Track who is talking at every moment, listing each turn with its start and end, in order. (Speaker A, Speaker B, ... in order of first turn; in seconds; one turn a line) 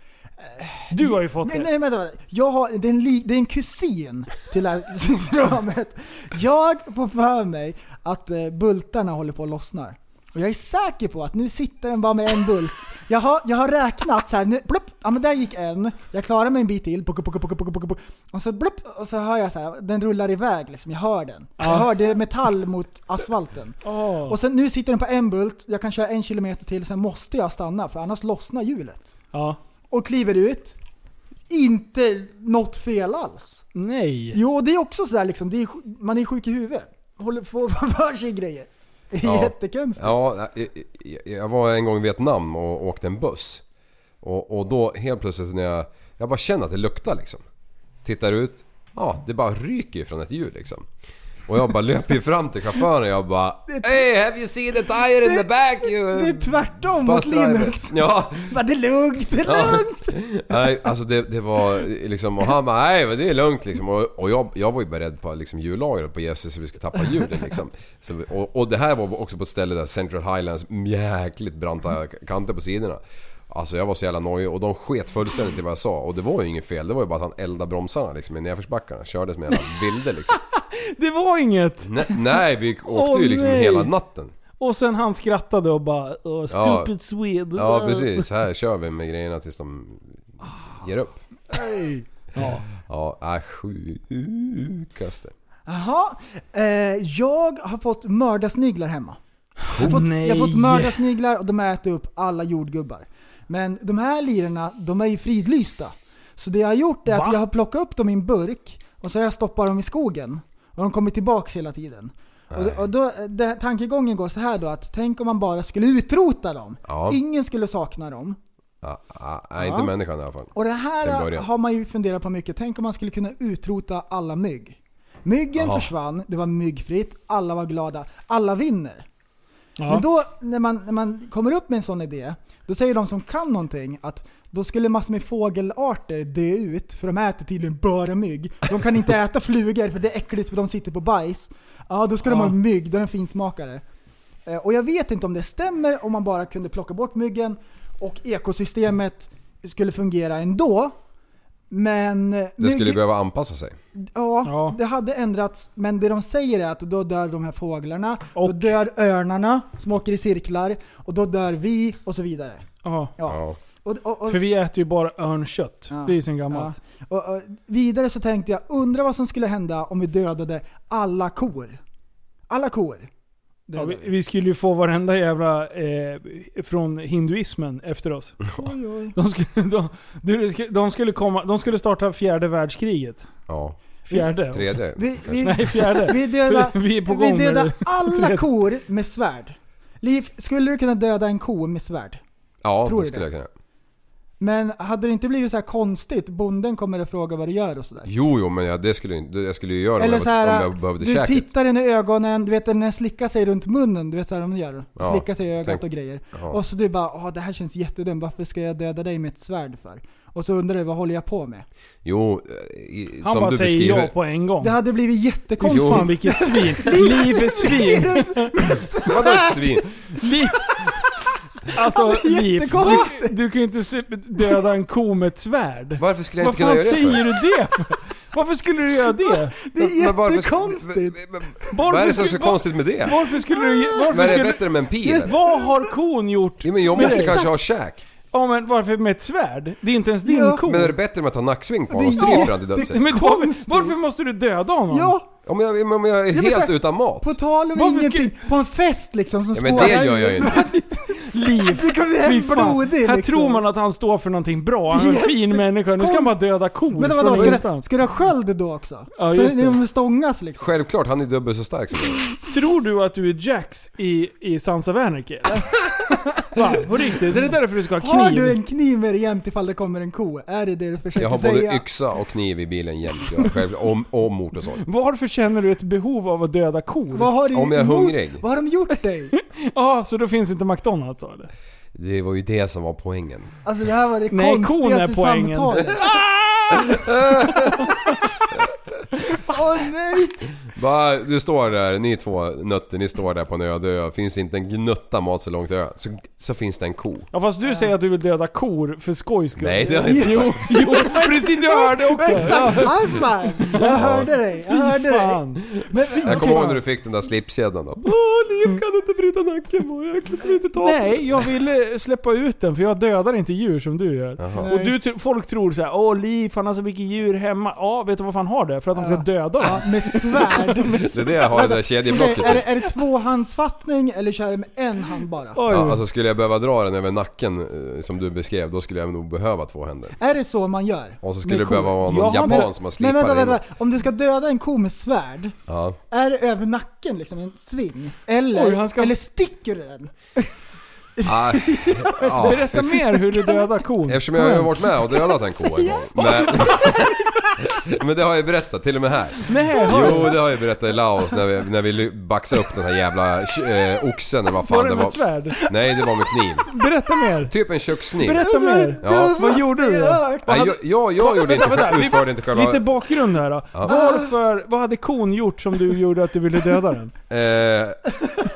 Speaker A: 0.4-29.1
Speaker B: 0.9-1.7
Speaker B: 21.6-21.9
Speaker B: 23.8-24.4
Speaker B: 29.3-29.6
Speaker A: 29.9-30.8
Speaker A: 31.5-33.6
Speaker B: 33.7-34.4
Speaker A: 34.3-40.1
Speaker C: 39.2-43.6
Speaker C: 44.2-47.4
Speaker C: 48.0-50.9
Speaker C: 51.5-58.5
Speaker A: 53.7-54.1
Speaker A: 55.2-60.9
Speaker C: 59.4-80.4
Speaker B: 80.5-82.2
Speaker C: 81.8-84.3
Speaker B: 82.8-83.9
Speaker B: 84.6-88.3
Speaker C: 86.5-86.9
Speaker C: 87.5-90.2
Speaker C: 90.7-91.2
Speaker A: 91.5-92.0
Speaker B: 92.3-92.7
Speaker C: 92.4-95.3
Speaker A: 95.7-99.2
Speaker B: 99.6-101.0
Speaker A: 99.8-118.4
Speaker B: 107.1-107.4
Speaker C: 112.5-112.8
Speaker C: 116.9-117.2
Speaker C: 118.8-121.5
Speaker A: 119.6-119.9
Speaker A: 120.5-129.1
Speaker C: 125.5-125.9
Speaker B: 129.8-130.0
Speaker A: 129.9-143.8
Speaker B: 142.2-142.6
Speaker A: 144.4-150.9
Speaker A: 151.7-153.0
Speaker C: 152.6-153.8
Speaker A: 154.0-162.6
Speaker B: 154.4-154.8
Speaker B: 158.3-158.7
Speaker B: 162.8-163.1
Speaker A: 163.2-164.5
Speaker C: 163.2-163.6
Speaker B: 164.3-166.7
Speaker A: 165.9-171.8
Speaker A: 172.5-173.1
Speaker A: 173.7-174.1
Speaker B: 173.8-178.4
Speaker A: 178.6-179.2
Speaker B: 179.1-183.3
Speaker C: 183.5-183.8
Speaker B: 184.1-184.8
Speaker C: 184.5-185.6
Speaker A: 184.9-192.2
Speaker B: 185.4-188.4
Speaker C: 192.6-193.5
Speaker A: 192.8-193.3
Speaker A: 194.4-198.1
Speaker C: 198.0-201.5
Speaker A: 200.0-211.7
Speaker C: 205.0-206.6
Speaker C: 212.0-214.1
Speaker B: 213.2-214.7
Speaker A: 214.6-219.8
Speaker B: 215.6-218.5
Speaker C: 215.6-216.2
Speaker C: 219.0-219.9
Speaker B: 220.2-220.8
Speaker A: 221.7-223.3
Speaker B: 221.7-229.6
Speaker C: 226.0-227.2
Speaker A: 229.6-231.2
Speaker C: 229.8-233.2
Speaker B: 231.7-237.4
Speaker A: 233.5-234.1
Speaker C: 234.1-235.3
Speaker A: 235.1-235.7
Speaker C: 236.6-238.0
Speaker A: 236.9-237.5
Speaker B: 238.3-241.0
Speaker A: 240.2-240.7
Speaker C: 240.6-243.1
Speaker A: 241.9-244.0
Speaker B: 242.2-245.1
Speaker A: 244.9-245.3
Speaker C: 245.4-247.4
Speaker A: 246.3-253.6
Speaker B: 247.7-248.3
Speaker C: 249.5-250.7
Speaker B: 249.7-257.9
Speaker A: 254.9-256.4
Speaker A: 256.9-260.7
Speaker B: 259.1-259.8
Speaker C: 260.6-262.2
Speaker B: 262.5-265.7
Speaker B: 266.5-268.6
Speaker A: 268.0-271.8
Speaker C: 271.1-274.8
Speaker B: 274.8-277.3
Speaker A: 277.1-279.3
Speaker C: 277.5-278.4
Speaker B: 279.4-281.5
Speaker C: 281.9-283.5
Speaker A: 283.6-286.2
Speaker B: 284.3-288.1
Speaker C: 286.7-287.9
Speaker A: 289.4-290.5
Speaker C: 290.6-297.3
Speaker B: 297.3-304.0
Speaker A: 297.6-297.9
Speaker C: 299.6-300.7
Speaker A: 299.8-306.8
Speaker C: 303.8-304.3
Speaker B: 304.6-306.7
Speaker C: 306.2-308.1
Speaker A: 308.1-311.1
Speaker B: 310.8-321.4
Speaker C: 314.4-314.7
Speaker A: 314.6-315.0
Speaker A: 318.9-325.7
Speaker C: 321.1-322.7
Speaker B: 322.1-322.6
Speaker B: 325.5-326.0
Speaker C: 325.6-330.2
Speaker A: 330.2-335.6
Speaker C: 331.2-333.6
Speaker B: 332.0-332.7
Speaker C: 335.7-336.0
Speaker A: 336.1-340.1
Speaker B: 338.5-339.1
Speaker A: 341.2-343.6
Speaker C: 341.2-343.0
Speaker B: 342.4-344.7
Speaker C: 344.1-356.7
Speaker A: 345.1-347.5
Speaker B: 346.2-346.9
Speaker B: 349.5-350.4
Speaker A: 349.9-350.4
Speaker B: 354.6-355.6
Speaker B: 356.7-357.5
Speaker C: 357.5-358.5
Speaker B: 358.2-360.2
Speaker A: 358.3-360.8
Speaker C: 359.0-359.5
Speaker C: 360.4-362.8
Speaker B: 361.2-367.1
Speaker A: 363.9-364.3
Speaker C: 367.3-368.0